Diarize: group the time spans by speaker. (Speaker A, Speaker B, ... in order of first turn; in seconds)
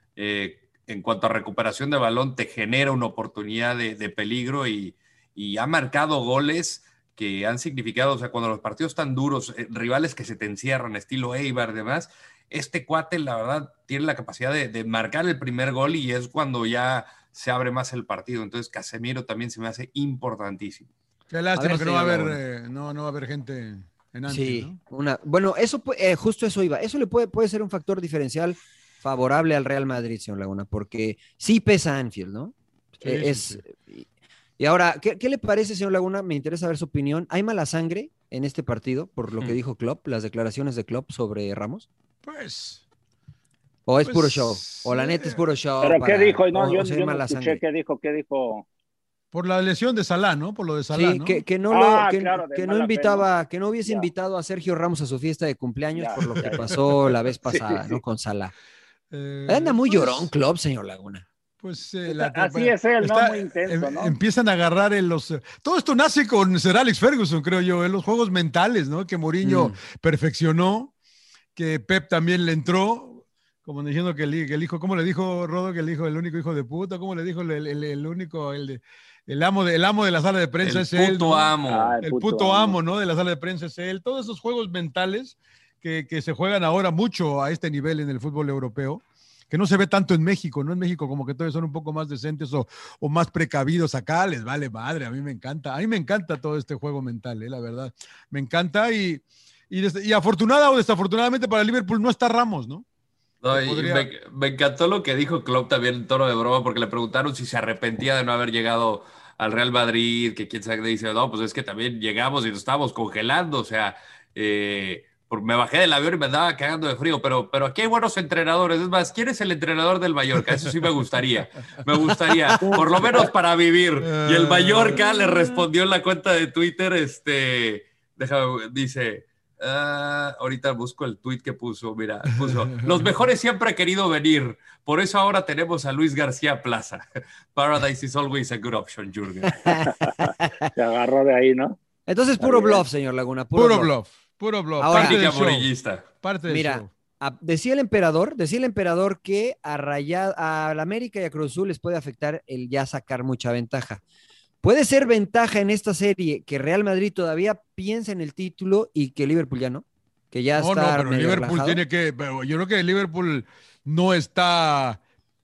Speaker A: 0.2-20.9, 80.6-82.0, 103.4-139.8, 144.9-146.1
Speaker B: 21.3-24.8, 33.0-33.6, 42.2-42.8, 44.0-45.4, 49.3-51.4, 56.2-57.0, 59.1-60.3, 61.6-70.9, 71.5-102.8, 103.5-104.1, 122.6-123.0, 124.0-125.6, 132.4-133.1, 143.5-145.7, 146.2-146.9, 160.6-165.0
Speaker C: 21.5-22.4, 24.3-34.0, 34.6-41.9, 43.9-47.6, 50.9-58.5, 59.5-61.2, 69.4-69.8, 122.7-123.1, 139.5-140.7, 142.1-143.9, 144.8-145.2, 146.5-154.0, 154.6-161.8
Speaker D: 45.8-48.6, 51.7-53.3, 53.8-54.1, 55.9-56.6, 57.5-58.0, 62.0-64.1, 81.7-82.8, 139.9-141.8, 142.4-142.8